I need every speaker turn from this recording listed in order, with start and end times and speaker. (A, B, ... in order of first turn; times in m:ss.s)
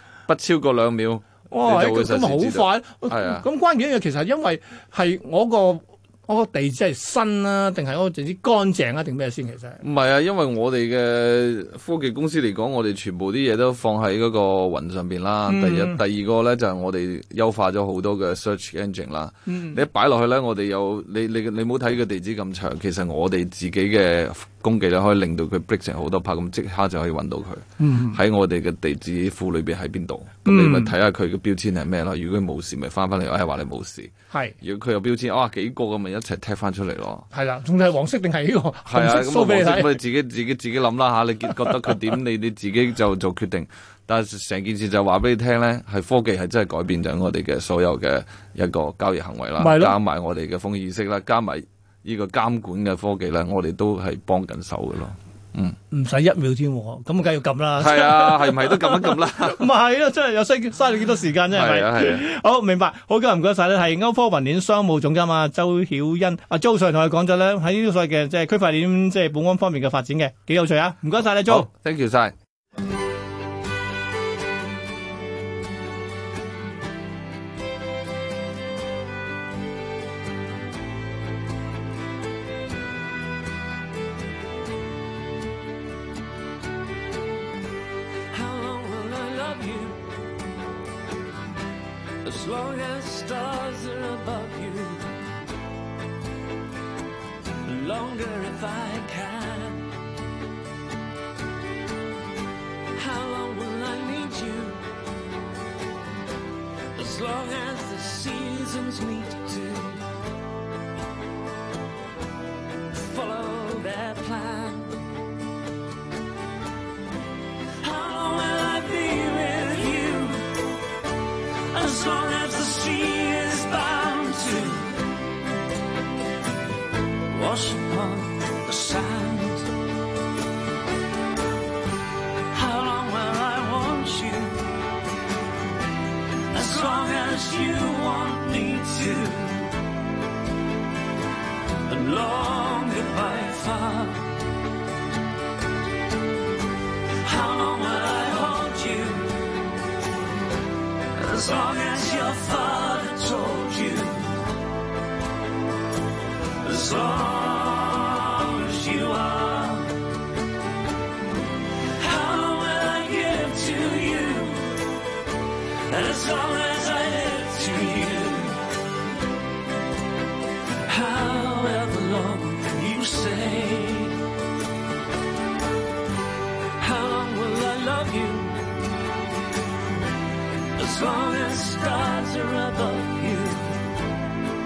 0:00.3-0:03.5 A
0:01.5-0:09.8 B
0:09.8-0:37.3 A
0:15.5-0:16.0 B
0:19.5-0:19.8 B
0:27.8-0:28.2 B
0:30.4-0:30.9 B
0:34.3-0:34.6 B
0:37.3-0:40.0 B
0:38.8-0:55.8 A
0:49.6-0:50.0 B
0:55.9-1:11.7 B
0:57.8-0:59.7 A
1:01.5-1:02.2 A
1:11.4-1:12.3 A
1:28.3-1:30.1 C
1:32.2-1:35.1 C
1:37.6-1:40.0 C
1:43.0-1:44.8 C
1:46.9-1:50.1 C
1:52.9-1:55.0 C
1:57.8-2:00.7 C
2:01.7-2:05.0 C
2:07.3-2:09.7 C
2:12.5-2:14.7 C
2:16.5-2:19.8 C
2:21.8-2:24.3 C
2:27.2-2:29.4 C
2:31.1-2:34.4 C
2:36.6-2:40.0 C
2:42.0-2:44.9 C
2:45.8-2:48.7 C
2:50.8-2:54.2 C
2:56.8-2:58.6 C
3:00.8-3:03.8 C